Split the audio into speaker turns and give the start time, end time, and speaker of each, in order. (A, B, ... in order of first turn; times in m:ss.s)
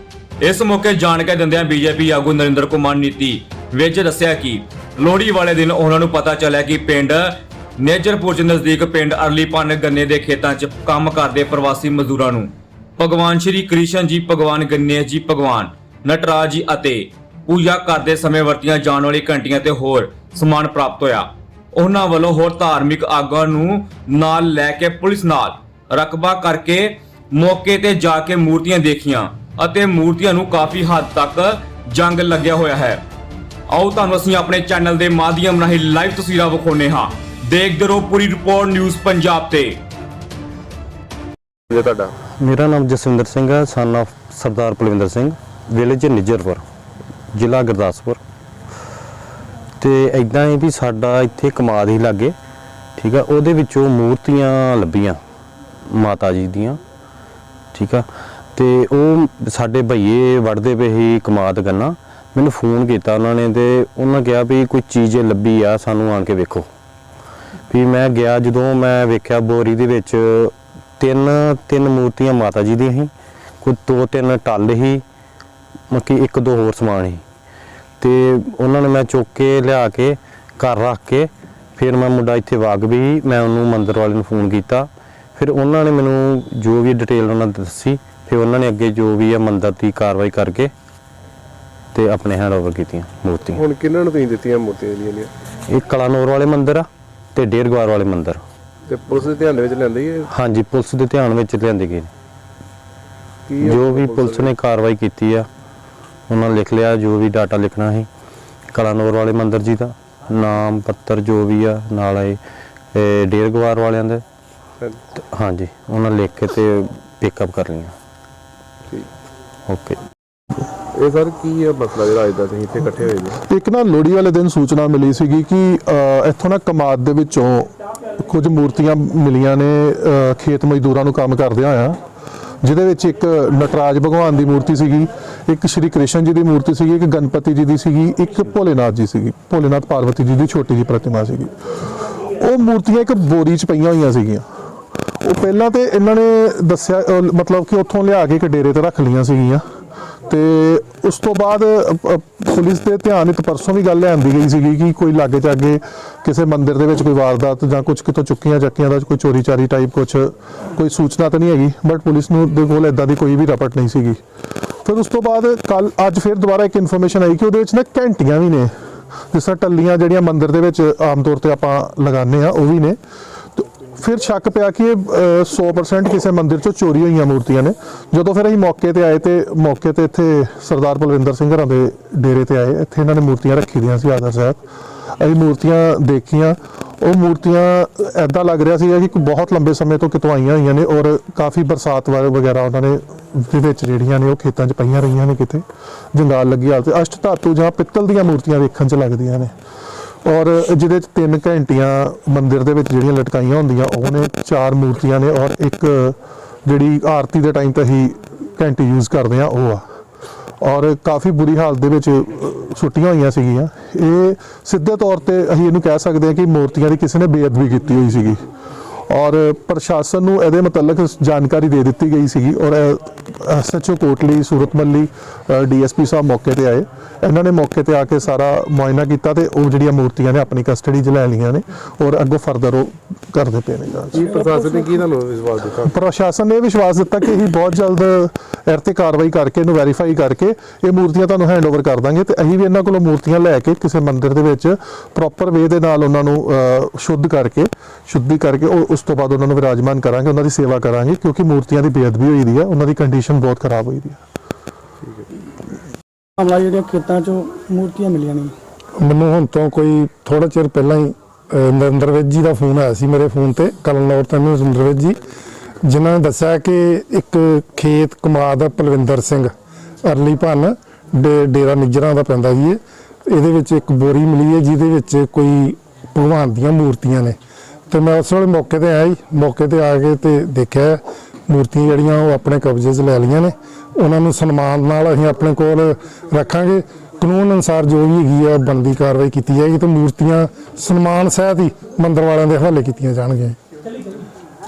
0:00.4-0:33.0 A
0:33.7-0:39.8 A
0:41.8-0:42.0 B
0:42.3-0:46.6 C
0:47.3-0:48.2 C
0:49.8-0:52.3 C
0:53.0-0:55.2 C
0:55.8-0:56.8 C
0:57.7-1:06.7 C
1:07.7-1:15.0 C
1:15.9-1:17.2 C
1:18.0-1:30.7 C
1:31.9-1:33.6 C
1:33.5-1:35.3 B
1:35.7-1:38.4 C
1:38.9-1:40.3 B
1:40.3-1:42.1 C
1:43.5-1:44.5 B
1:43.6-1:45.5 C
1:46.3-1:48.1 C
1:48.7-1:52.4 C
1:52.9-1:54.2 C
1:55.2-1:58.0 C
1:59.7-2:00.0 C
2:00.9-2:03.4 B
2:03.5-2:07.7 D
2:08.2-2:12.0 D
2:12.6-2:21.5 D
2:22.3-2:24.5 D
2:25.2-2:29.6 D
2:30.3-2:44.2 D
2:44.8-2:48.7 D
2:49.3-2:53.0 D
2:53.6-3:04.6 D
3:05.2-3:19.5 D
3:20.2-3:29.8 D
3:30.6-3:38.4 D
3:39.1-3:54.2 D
3:54.1-3:56.0 B
3:55.9-4:14.2 D
4:16.4-4:18.5 E
4:19.2-4:25.2 F
4:25.9-4:29.5 F
4:30.1-4:32.8 F
4:33.3-4:37.3 F
4:37.9-4:53.6 F